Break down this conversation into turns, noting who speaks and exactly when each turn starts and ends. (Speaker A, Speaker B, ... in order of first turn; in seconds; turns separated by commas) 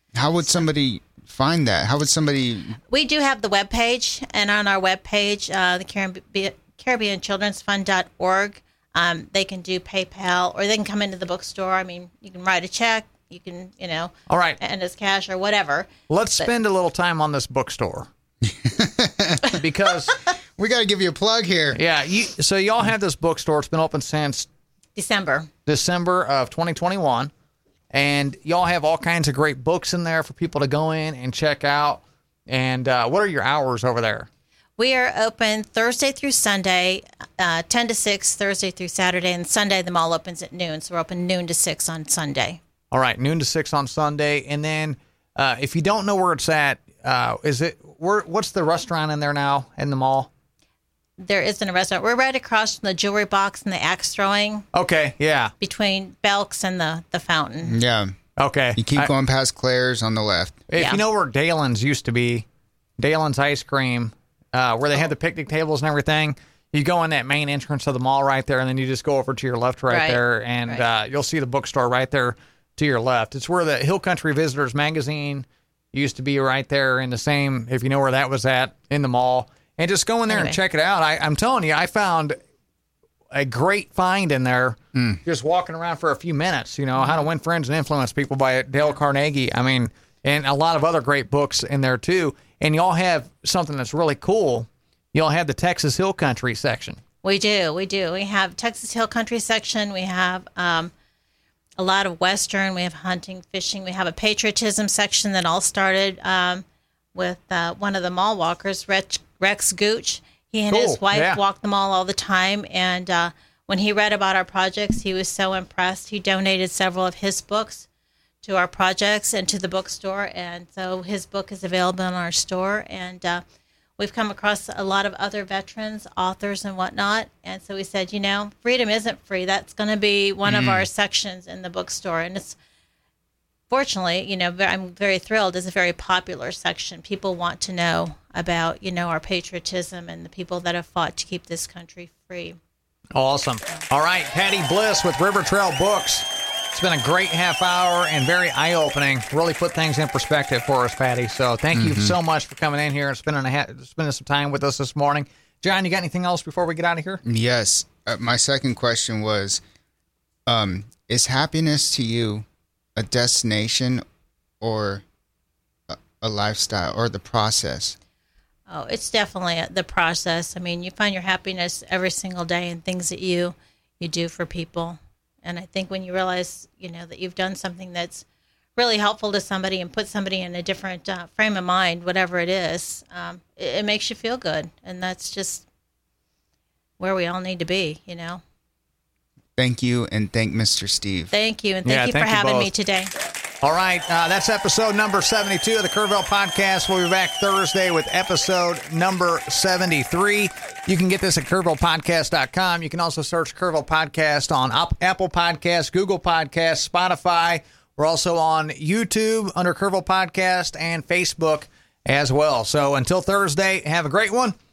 Speaker A: 0.1-2.8, Speaker B: 2.9-16.5, Speaker C: 14.3-14.6, Speaker C: 16.1-18.1, Speaker A: 18.4-19.5, Speaker C: 19.5-20.1, Speaker A: 20.6-21.8, Speaker C: 21.7-24.5, Speaker B: 25.0-25.5, Speaker C: 25.7-27.3, Speaker C: 27.9-34.3, Speaker B: 34.8-42.6, Speaker C: 42.9-50.3, Speaker B: 51.2-54.7, Speaker C: 54.7-55.5, Speaker B: 55.6-57.8, Speaker A: 57.6-58.2, Speaker C: 58.4-59.1, Speaker A: 58.8-60.6, Speaker C: 60.7-62.5, Speaker C: 63.0-82.4, Speaker B: 69.9-70.8, Speaker B: 80.3-80.6, Speaker C: 83.3-97.0, Speaker A: 85.0-85.2, Speaker B: 87.0-87.2, Speaker B: 97.2-100.9, Speaker B: 101.8-117.9, Speaker C: 110.7-111.4, Speaker B: 118.4-123.4, Speaker B: 124.0-132.6, Speaker A: 130.4-130.9, Speaker B: 133.7-142.6, Speaker C: 143.2-157.2, Speaker A: 151.7-152.2, Speaker A: 157.2-159.6, Speaker A: 160.5-164.0, Speaker A: 164.6-165.0, Speaker A: 165.9-168.0, Speaker B: 168.7-178.2, Speaker B: 178.8-185.7, Speaker B: 187.0-188.4, Speaker A: 189.6-191.3, Speaker B: 191.3-193.1, Speaker C: 191.8-192.7, Speaker C: 193.6-214.6